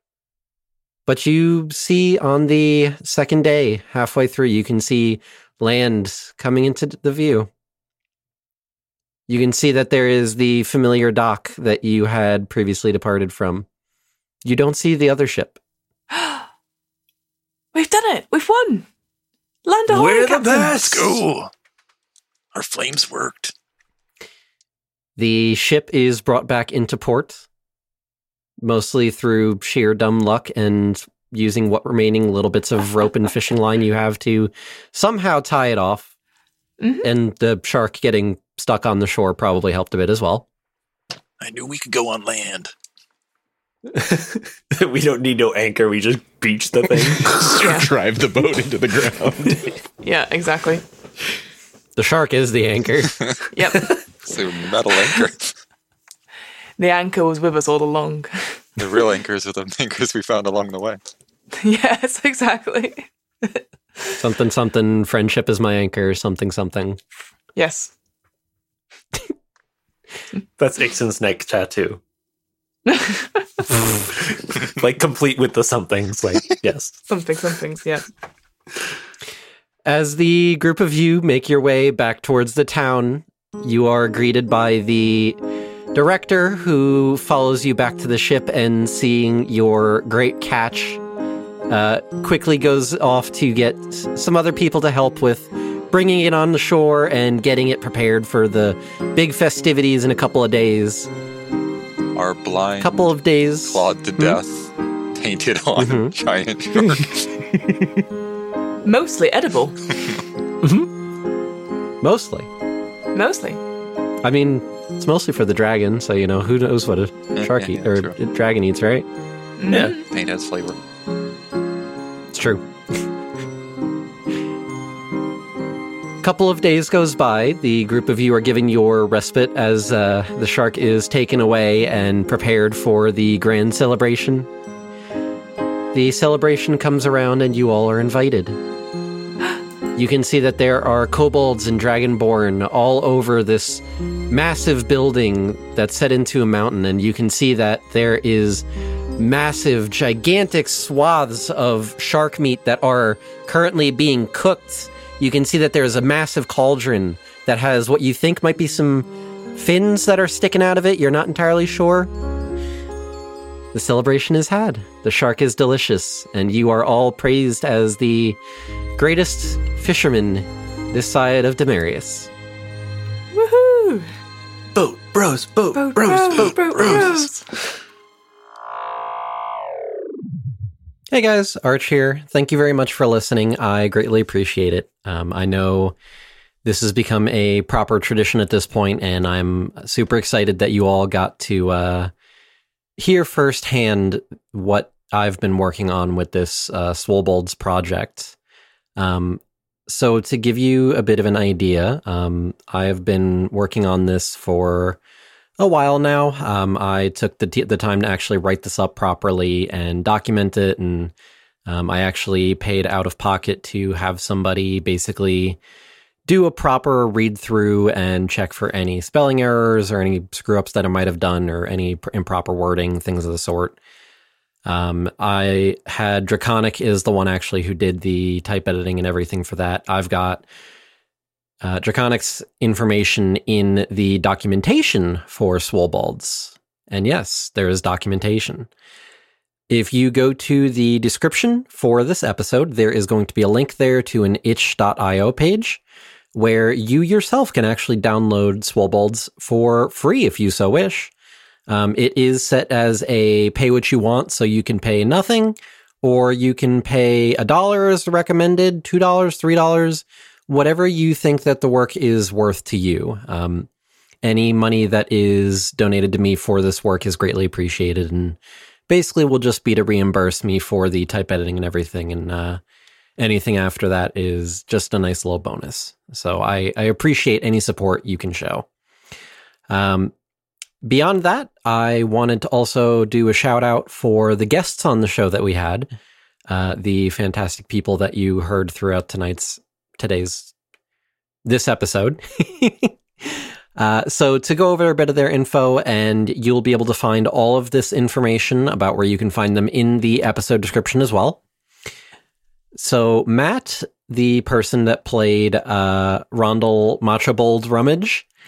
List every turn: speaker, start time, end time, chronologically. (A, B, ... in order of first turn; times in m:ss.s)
0:01.1-0:07.5 A
0:09.3-0:13.7 A
0:14.4-0:15.6 A
0:16.1-0:16.4 B
0:17.7-0:18.9 B
0:19.6-0:20.8 B
0:19.9-0:21.2 C
0:20.7-0:21.5 D
0:22.5-0:23.5 D
0:25.2-0:27.4 A
0:28.6-0:36.1 A
0:36.8-0:37.1 B
0:37.0-0:40.4 A
0:41.4-0:42.7 D
0:43.9-0:47.4 C
0:47.2-0:49.7 E
0:47.6-0:47.9 B
0:50.0-0:50.8 B
0:52.0-0:53.1 A
0:53.5-0:54.0 B
0:54.3-0:55.5 F
0:56.8-0:58.6 B
0:58.8-1:01.0 F
1:01.6-1:04.1 B
1:04.2-1:07.0 A
1:07.6-1:07.9 B
1:10.6-1:12.0 C
1:12.9-1:13.7 B
1:14.6-1:17.0 C
1:17.1-1:18.0 B
1:19.9-1:25.4 A
1:25.9-1:31.0 A
1:31.7-1:41.1 A
1:42.2-1:47.2 F
1:42.8-1:44.4 A
1:45.8-1:46.2 A
1:48.8-1:49.8 B
1:50.6-1:50.9 C
1:52.0-1:52.5 A
1:53.1-1:53.6 B
1:54.2-1:59.1 A
1:57.4-1:58.1 F
1:59.6-2:00.0 B
1:59.9-2:00.8 F
2:02.3-2:03.0 A
2:06.2-2:14.5 A
2:15.9-2:18.6 A
2:20.0-2:28.6 A
2:29.2-2:42.1 A
2:43.7-2:48.4 A
2:49.0-2:52.3 A
2:53.3-2:54.1 B
2:54.7-2:57.3 C
2:55.7-2:57.4 B
3:01.1-3:06.0 A
3:06.6-3:12.1 A
3:13.0-3:18.3 A
3:19.0-3:25.0 A
3:25.6-3:31.1 A
3:31.7-3:35.6 A
3:36.3-3:43.8 A
3:44.6-3:50.4 A
3:51.6-3:58.7 A
3:59.7-4:05.8 A
4:06.3-4:11.1 A
4:11.7-4:23.7 A
4:24.2-4:32.6 A
4:33.2-4:38.7 A
4:39.7-4:40.1 A
4:40.8-4:45.9 A
4:46.5-4:50.5 A
4:51.4-5:01.4 A
5:02.8-5:08.2 A